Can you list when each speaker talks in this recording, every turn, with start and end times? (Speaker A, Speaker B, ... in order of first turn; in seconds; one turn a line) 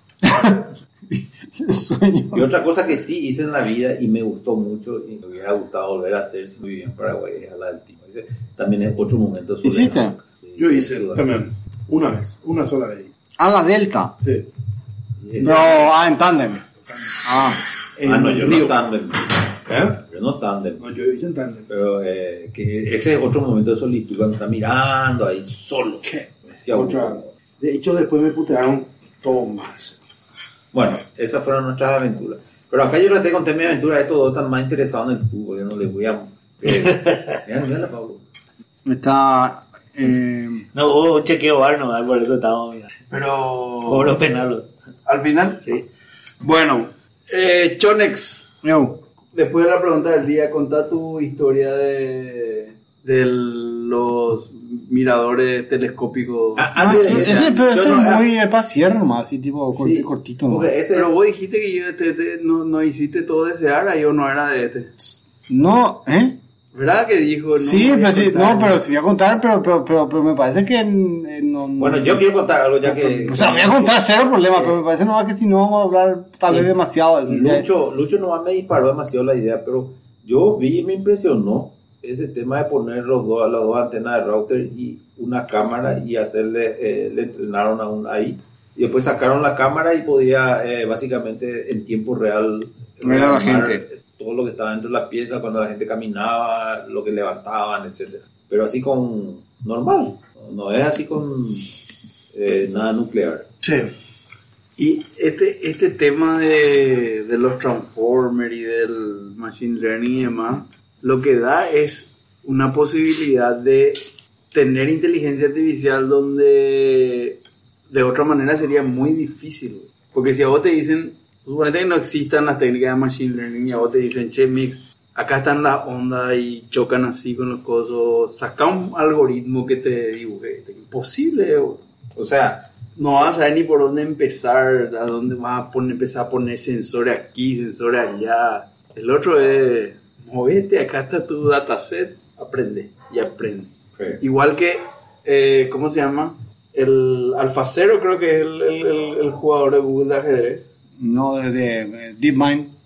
Speaker A: 0.2-2.5
Speaker B: 2.3-11.3
Speaker A: 9.6-10.2
Speaker C: 10.6-13.1
Speaker A: 13.4-14.2
Speaker C: 14.2-14.5
Speaker B: 15.2-15.9
Speaker A: 15.4-16.6
Speaker A: 17.2-17.6
Speaker C: 18.0-18.8
Speaker B: 18.1-20.8
Speaker C: 19.7-20.0
Speaker C: 20.8-21.7
Speaker B: 21.7-27.3
Speaker C: 26.0-30.0
Speaker B: 30.7-38.2
Speaker D: 37.1-37.4
Speaker A: 38.9-40.7
Speaker D: 40.7-42.9
Speaker E: 43.1-44.2
Speaker D: 43.9-44.7
Speaker E: 45.0-45.8
Speaker E: 46.4-48.6
Speaker A: 48.6-49.0
Speaker E: 49.3-57.5
Speaker B: 56.6-58.3
Speaker A: 56.8-60.7
Speaker B: 59.8-61.1
Speaker E: 60.9-64.9
Speaker A: 65.4-66.4
Speaker E: 66.7-68.8
Speaker A: 67.6-72.2
Speaker B: 71.8-74.8
Speaker A: 72.8-77.7
Speaker B: 77.3-101.7
Speaker A: 93.0-93.8
Speaker B: 102.3-103.5
Speaker C: 103.6-103.9
Speaker E: 104.8-117.4
Speaker E: 117.9-131.8
Speaker B: 132.2-132.7
Speaker E: 133.0-150.7
Speaker A: 151.0-152.7